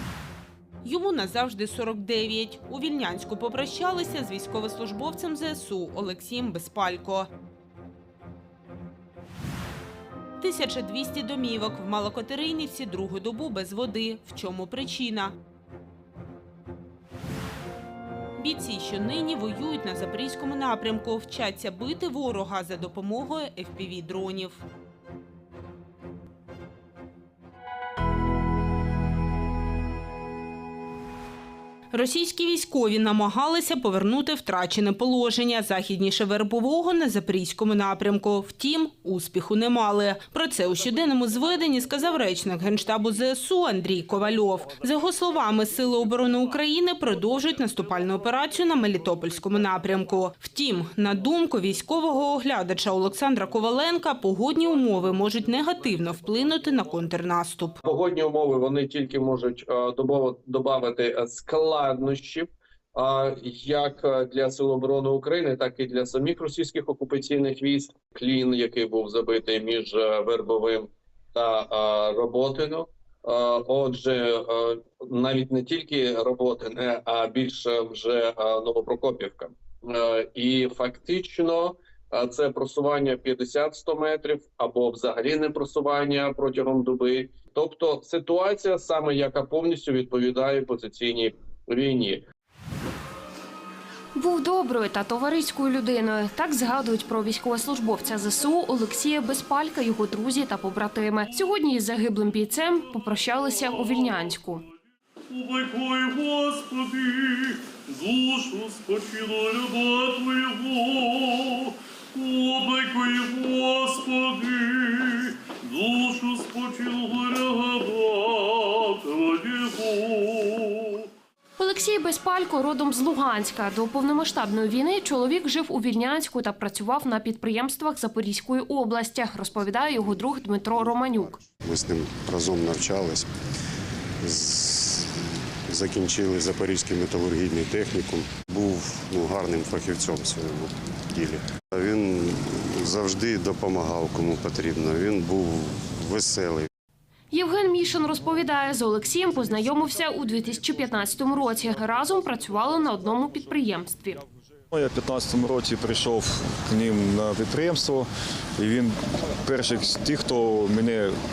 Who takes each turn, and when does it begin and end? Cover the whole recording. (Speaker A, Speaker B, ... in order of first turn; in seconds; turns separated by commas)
Speaker A: 0.8-7.3, Speaker A: 10.4-15.3, Speaker A: 18.4-24.6, Speaker A: 31.9-57.8, Speaker B: 57.9-92.2, Speaker C: 94.2-104.6, Speaker D: 105.4-107.5, Speaker D: 108.0-111.0, Speaker D: 112.2-120.5, Speaker C: 121.6-131.4, Speaker E: 131.6-133.3, Speaker E: 134.2-135.2, Speaker E: 135.7-146.7, Speaker C: 147.3-154.2, Speaker F: 154.7-158.1, Speaker F: 158.6-161.1